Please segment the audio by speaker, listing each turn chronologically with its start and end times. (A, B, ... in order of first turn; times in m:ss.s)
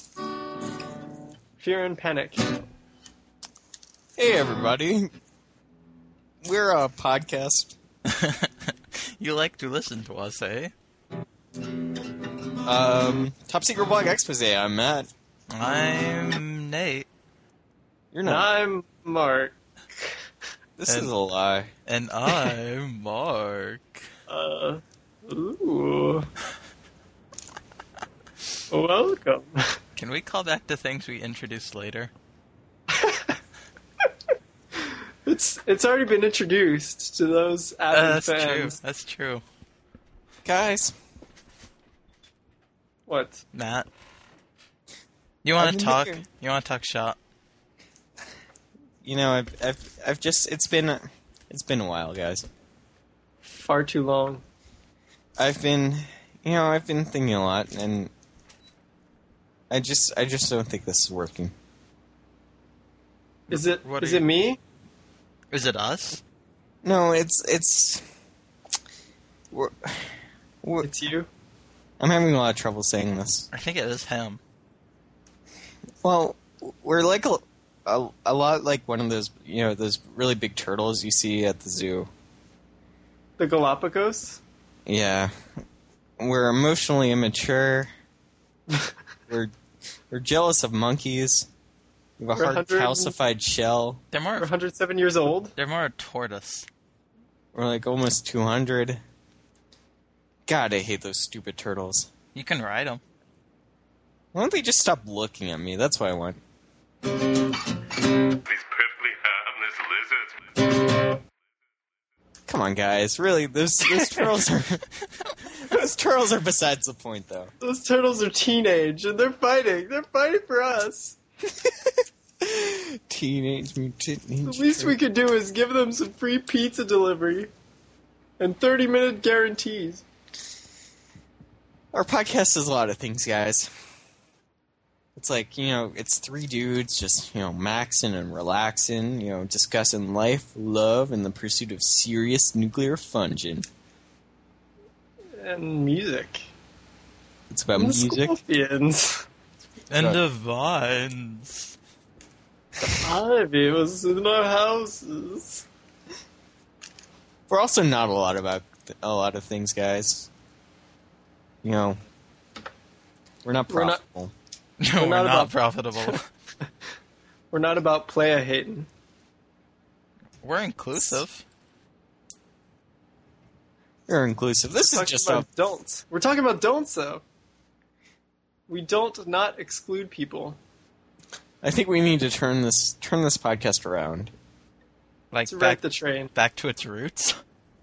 0:01.6-0:02.5 A
0:04.2-0:05.1 B
0:06.4-0:07.8 B
0:08.1-0:10.7 C
0:12.6-0:15.1 B
0:15.5-0:17.1 C
0:18.1-0:18.5 B
0:18.2-0:20.2 A
0:20.8-0:21.7 B
0:21.9-0:24.0 C
0:24.3-0:26.3 A
0:28.7-0:29.8 A
0:30.0-0:32.1 C
0:32.9-0:33.4 A
0:34.8-0:38.8 A
0:37.9-0:39.4 C
0:40.4-0:41.0 B
0:43.1-0:43.4 A
0:43.5-0:43.9 C
0:45.4-0:47.2 C
0:45.6-0:46.2 B
0:49.0-0:52.5 B
0:53.4-0:54.4 A
0:55.4-0:58.1 B
0:59.7-1:01.5 B
1:03.5-1:04.2 C
1:03.5-1:04.6 A
1:05.5-1:06.2 C
1:06.8-1:08.1 B
1:09.5-1:10.9 B
1:10.8-1:11.3 A
1:12.0-1:13.5 B
1:13.5-1:14.4 C
1:16.0-1:22.1 B
1:23.4-1:24.4 A
1:24.9-1:25.3 B
1:26.2-1:27.9 B
1:29.3-1:29.5 B
1:30.1-1:31.5 B
1:32.2-1:34.0 B
1:32.3-1:33.2 A
1:34.1-1:34.5 C
1:34.4-1:35.5 A
1:35.6-1:36.7 C
1:37.5-1:39.0 B
1:40.5-1:42.1 B
1:42.4-1:43.0 C
1:44.3-1:46.4 B
1:48.5-1:50.5 D
1:52.5-1:57.5 B
1:57.6-2:01.2 A
2:01.5-2:05.0 B
2:04.4-2:07.5 A
2:08.4-2:10.0 A
2:11.9-2:13.7 B
2:15.2-2:23.7 B
2:25.4-2:26.5 A
2:27.5-2:28.4 B
2:27.8-2:29.3 A
2:29.9-2:31.8 C
2:30.0-2:30.2 B
2:32.8-2:35.7 A
2:37.5-2:40.3 B
2:41.6-2:42.0 B
2:43.4-2:44.3 B
2:43.7-2:44.0 A
2:44.8-2:46.3 C
2:45.0-2:46.7 A
2:47.5-2:48.9 A
2:50.4-2:51.4 C
2:54.1-2:55.5 B
2:54.8-2:57.2 A
2:58.7-3:00.6 A
3:01.6-3:04.3 B
3:05.3-3:05.8 C
3:05.5-3:06.3 A
3:06.3-3:07.4 C